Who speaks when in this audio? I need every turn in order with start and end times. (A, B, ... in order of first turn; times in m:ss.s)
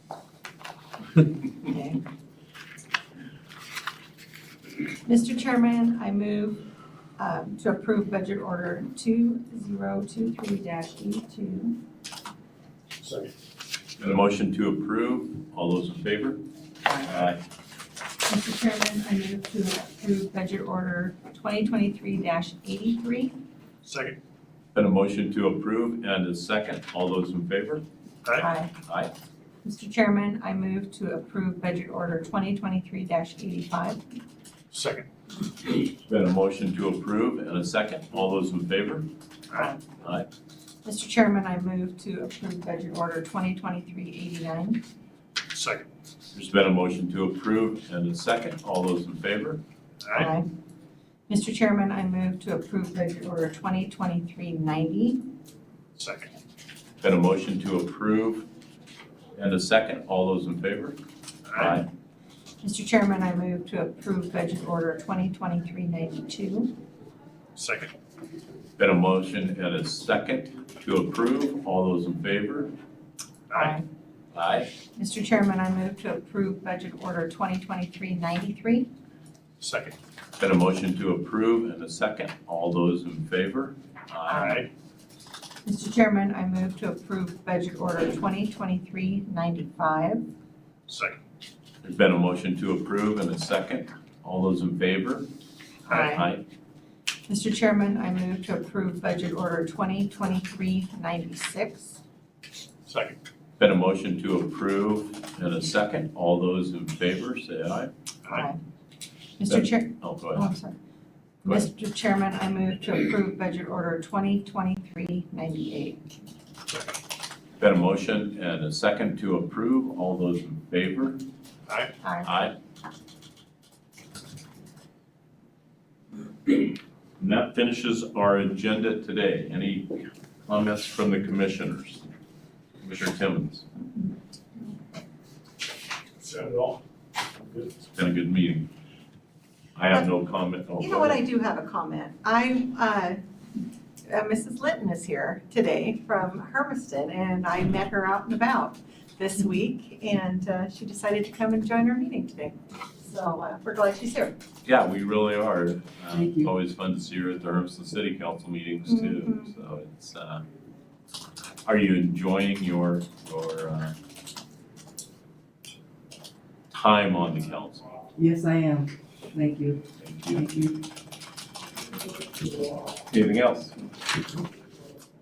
0:01.6-0:02.0 A
0:05.0-0:11.8 A
0:13.0-0:13.3 B
0:14.0-0:16.4 C
0:17.0-0:17.4 C
0:18.2-0:23.3 A
0:23.8-0:24.2 B
0:24.7-0:27.8 C
0:28.4-0:28.7 A
0:28.8-0:29.1 C
0:29.6-0:34.0 A
0:34.7-0:35.1 B
0:36.0-0:39.1 C
0:39.5-0:39.8 B
0:39.5-0:39.8 A
0:40.0-0:40.3 C
0:40.8-0:44.8 A
0:45.5-0:45.8 B
0:46.3-0:49.6 C
0:50.0-0:50.3 B
0:50.1-0:50.5 A
0:51.3-0:55.2 A
0:56.0-0:56.3 B
0:57.0-0:58.5 C
0:59.4-1:01.0 C
1:01.5-1:01.8 B
1:01.5-1:01.9 C
1:02.6-1:06.7 A
1:07.6-1:07.9 B
1:08.8-1:12.7 C
1:13.5-1:13.8 B
1:13.5-1:13.8 A
1:14.3-1:14.7 C
1:15.0-1:18.9 A
1:19.6-1:20.0 B
1:20.4-1:24.6 C
1:24.3-1:24.7 B
1:24.3-1:24.6 A
1:25.6-1:30.2 A
1:30.9-1:31.2 B
1:31.8-1:35.3 C
1:35.9-1:36.3 A
1:35.9-1:36.1 B
1:35.9-1:36.4 C
1:37.3-1:42.0 A
1:42.9-1:43.2 B
1:43.6-1:47.9 C
1:48.3-1:48.6 A
1:49.4-1:50.8 A
1:49.5-1:50.5 C
1:51.4-1:56.0 A
1:56.7-1:57.0 B
1:57.6-2:01.2 C
2:01.7-2:01.9 B
2:02.0-2:02.3 A
2:02.2-2:02.6 C
2:07.2-2:12.0 C
2:12.8-2:13.6 C
2:16.2-2:16.8 B
2:17.3-2:17.8 B
2:18.0-2:18.7 C
2:19.8-2:21.2 C
2:20.8-2:23.2 A
2:24.1-2:34.4 A
2:34.6-2:40.4 C
2:36.1-2:36.5 D
2:38.9-2:39.5 A
2:41.6-2:43.9 C
2:46.7-2:47.9 C
2:48.2-2:50.8 D
2:50.0-2:50.5 C
2:53.1-2:53.8 C